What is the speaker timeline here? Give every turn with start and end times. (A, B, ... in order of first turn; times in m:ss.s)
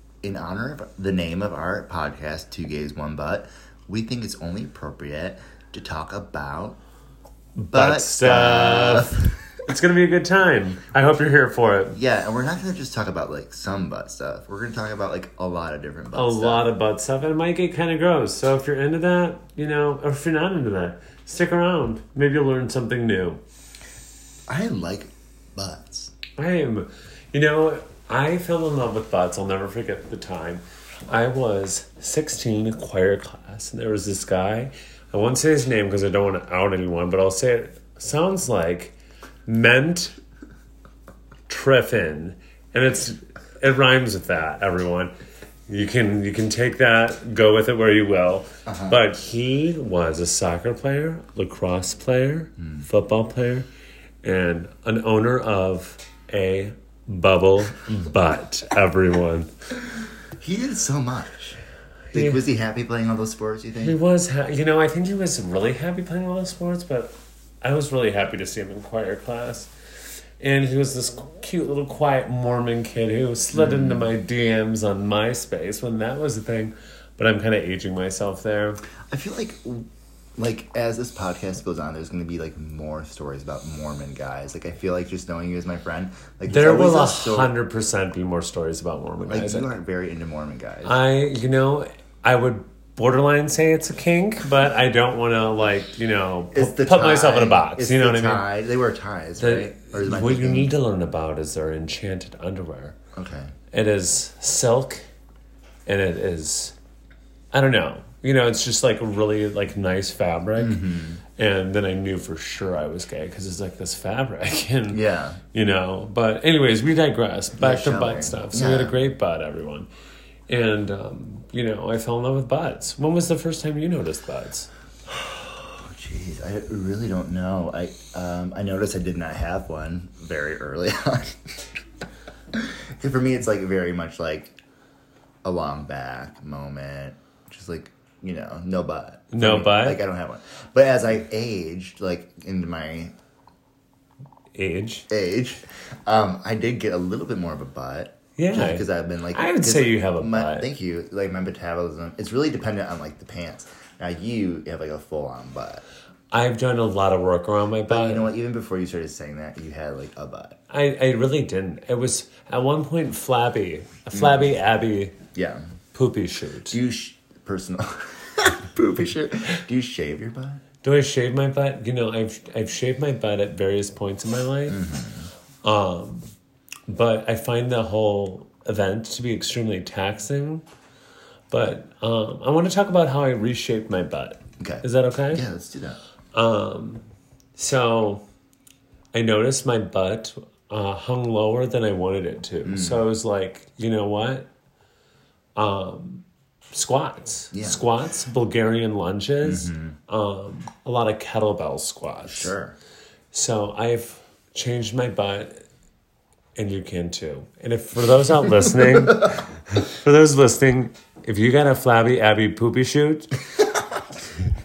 0:00.2-0:06.8 A
0:07.6-0:12.0 B
0:07.7-0:09.6 A
0:11.9-0:16.7 A
0:16.1-0:23.4 B
0:24.5-0:26.1 A
0:26.4-0:38.9 B
0:39.4-0:40.2 B
0:41.5-0:45.1 B
0:45.7-0:53.6 B
0:48.6-0:49.0 A
0:52.6-0:52.9 A
0:54.2-0:59.5 B
1:00.4-1:01.6 A
1:02.1-1:02.4 B
1:02.1-1:04.0 A
1:03.8-1:09.7 B
1:10.4-1:18.8 B
1:13.5-1:14.1 A
1:19.1-1:27.5 A
1:26.5-1:29.7 B
1:29.3-1:31.0 A
1:30.8-1:38.4 B
1:36.5-1:40.7 A
1:39.4-1:43.0 B
1:43.1-1:43.5 A
1:43.7-1:45.0 B
1:45.8-1:46.7 B
1:47.5-1:50.8 B
1:50.6-1:51.2 A
1:51.4-1:55.0 B
1:54.9-1:55.4 A
1:55.5-1:59.9 B
1:57.6-1:59.0 A
2:00.5-2:04.7 B
2:05.1-2:11.6 A
2:12.5-2:14.5 A
2:15.4-2:23.1 A
2:19.3-2:20.0 B
2:24.5-2:25.1 B
2:25.1-2:35.8 A
2:28.4-2:30.7 B
2:36.3-2:38.3 B
2:37.9-2:40.6 A
2:40.7-2:45.2 B
2:44.1-2:44.5 A
2:45.3-2:45.6 A
2:45.9-2:46.8 B
2:46.7-2:50.6 A
2:50.8-2:54.8 B
2:54.7-2:55.3 A
2:55.6-2:56.3 B
2:56.9-3:00.6 B
3:01.5-3:05.4 B
3:04.6-3:06.0 A
3:06.3-3:07.0 B
3:07.6-3:08.2 B
3:09.1-3:14.5 B
3:12.6-3:13.1 A
3:15.6-3:22.5 B
3:17.5-3:17.9 A
3:19.4-3:20.0 A
3:22.2-3:22.7 A
3:23.3-3:25.6 B
3:26.6-3:33.3 B
3:28.5-3:29.4 A
3:33.6-3:34.0 A